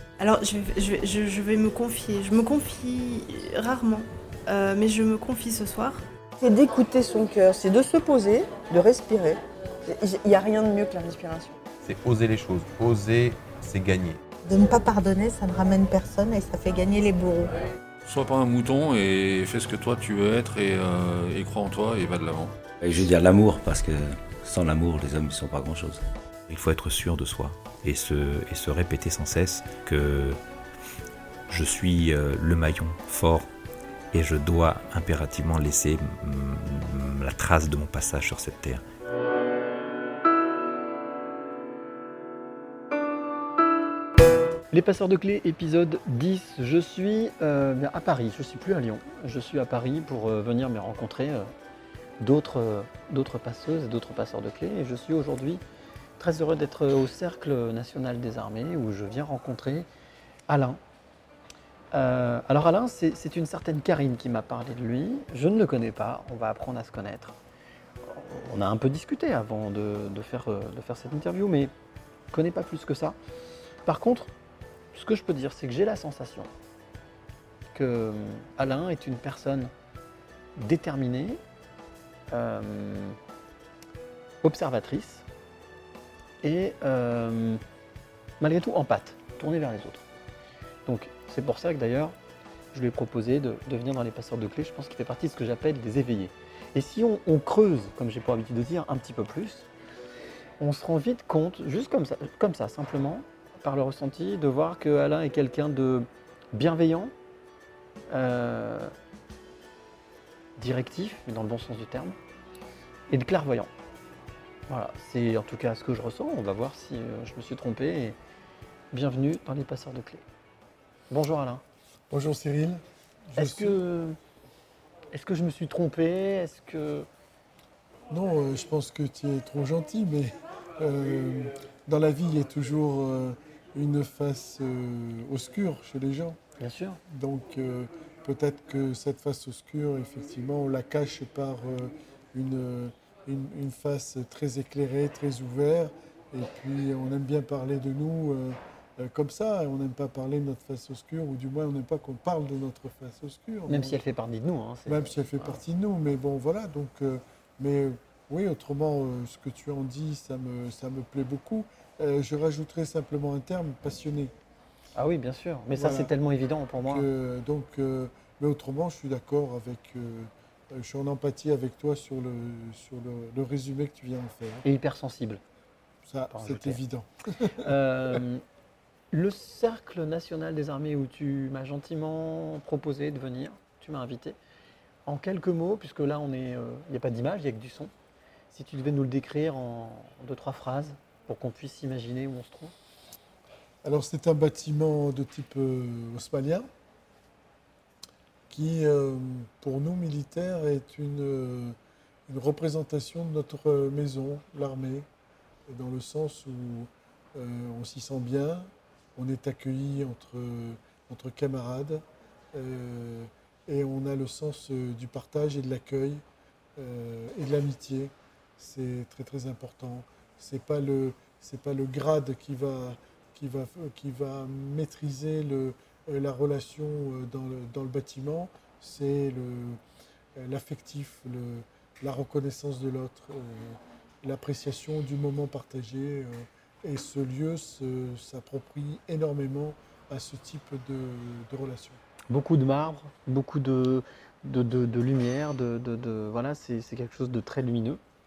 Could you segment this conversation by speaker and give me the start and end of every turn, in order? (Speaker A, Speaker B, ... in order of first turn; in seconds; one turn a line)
Speaker A: 0.2-6.0
Speaker B: 6.4-11.6
Speaker C: 11.8-14.2
Speaker D: 14.4-17.5
Speaker E: 18.1-22.6
Speaker F: 22.8-26.0
Speaker G: 26.5-30.4
Speaker G: 31.5-33.5
Speaker G: 34.1-38.8
Speaker H: 44.7-51.5
Speaker H: 52.2-55.6
Speaker H: 56.2-59.9
Speaker H: 60.5-60.8
Speaker H: 61.9-67.4
Speaker H: 68.0-71.7
Speaker H: 72.3-73.2
Speaker H: 73.8-74.3
Speaker H: 74.9-76.5
Speaker H: 77.7-79.7
Speaker H: 80.6-81.4
Speaker H: 82.3-83.2
Speaker H: 84.4-85.2
Speaker H: 86.4-87.6
Speaker H: 88.4-90.0
Speaker H: 90.8-92.1
Speaker H: 92.7-99.7
Speaker H: 100.6-107.1
Speaker H: 108.1-108.9
Speaker H: 110.6-112.2
Speaker H: 113.1-113.7
Speaker H: 114.7-118.2
Speaker H: 118.9-120.2
Speaker H: 121.1-121.6
Speaker I: 122.1-123.8
Speaker H: 123.3-124.2
Speaker H: 125.1-127.1
Speaker I: 128.1-136.4
Speaker H: 136.6-137.0
Speaker I: 137.0-154.0
Speaker H: 153.7-155.6
Speaker I: 154.8-164.3
Speaker H: 164.9-167.1
Speaker I: 165.7-166.1
Speaker I: 166.8-174.6
Speaker H: 174.6-175.4
Speaker I: 176.0-177.7
Speaker H: 176.3-176.8
Speaker H: 177.6-178.4
Speaker H: 179.1-184.4
Speaker H: 185.1-187.9
Speaker H: 188.5-192.7
Speaker I: 193.8-196.7
Speaker I: 198.5-205.1
Speaker I: 205.7-216.2
Speaker I: 216.8-229.8
Speaker I: 230.3-242.0
Speaker H: 242.3-248.0